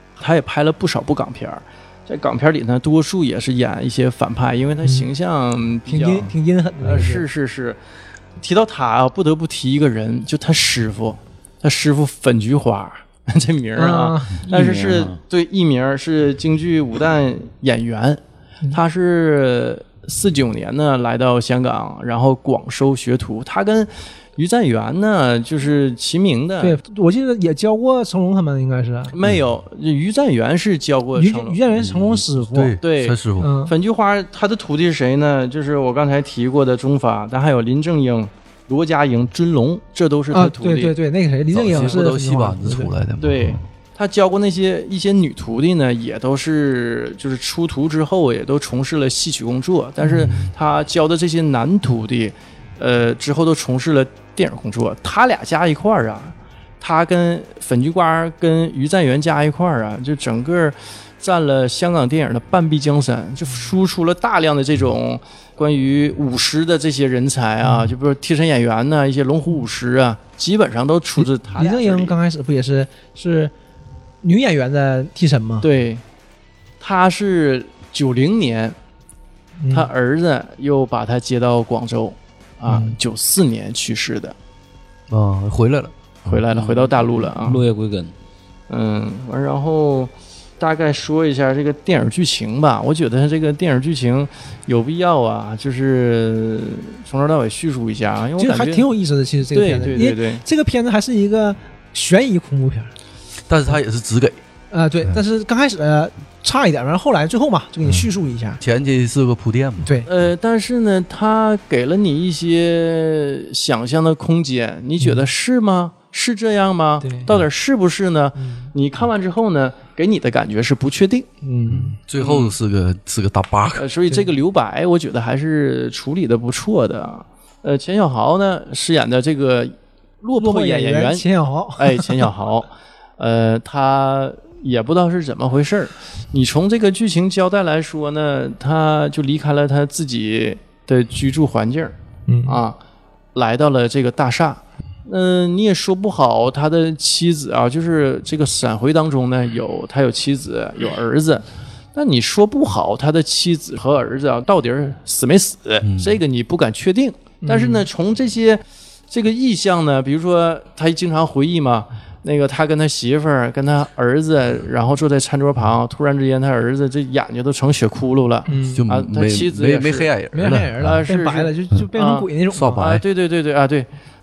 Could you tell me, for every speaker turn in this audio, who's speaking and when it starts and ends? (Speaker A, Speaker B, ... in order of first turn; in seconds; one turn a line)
Speaker A: 0.2-7.8
Speaker B: 4.8-5.1
Speaker B: 5.9-7.2
Speaker A: 8.4-18.2
Speaker B: 13.8-14.4
Speaker C: 14.5-15.2
Speaker A: 18.7-26.8
Speaker B: 26.6-29.1
Speaker A: 29.1-31.6
Speaker B: 31.1-32.8
Speaker D: 31.8-33.5
Speaker A: 32.8-40.9
Speaker B: 33.4-33.7
Speaker B: 40.3-42.9
Speaker D: 41.5-43.6
Speaker A: 43.2-72.1
Speaker B: 50.0-50.5
Speaker B: 67.6-67.9
Speaker B: 71.2-73.5
Speaker B: 74.2-75.7
Speaker A: 75.6-76.0
Speaker A: 76.8-78.8
Speaker B: 79.6-79.9
Speaker A: 79.7-84.3
Speaker B: 82.7-83.0
Speaker D: 85.1-86.0
Speaker A: 86.2-87.7
Speaker C: 86.5-88.1
Speaker A: 88.7-98.9
Speaker B: 98.4-102.9
Speaker A: 99.5-100.4
Speaker D: 103.5-104.4
Speaker B: 104.7-108.6
Speaker D: 108.6-110.0
Speaker B: 109.8-110.1
Speaker A: 110.1-121.3
Speaker B: 115.0-115.2
Speaker B: 117.0-117.3
Speaker B: 118.4-118.7
Speaker B: 121.4-122.0
Speaker D: 121.7-123.9
Speaker A: 122.2-122.5
Speaker A: 123.8-131.2
Speaker B: 130.4-132.2
Speaker A: 131.8-141.9
Speaker B: 142.3-142.6
Speaker A: 142.5-142.8
Speaker A: 143.3-170.1
Speaker D: 155.8-156.2
Speaker B: 157.4-157.9
Speaker B: 168.5-168.8
Speaker D: 168.8-171.0
Speaker B: 170.3-172.8
Speaker A: 170.8-173.9
Speaker D: 172.5-173.0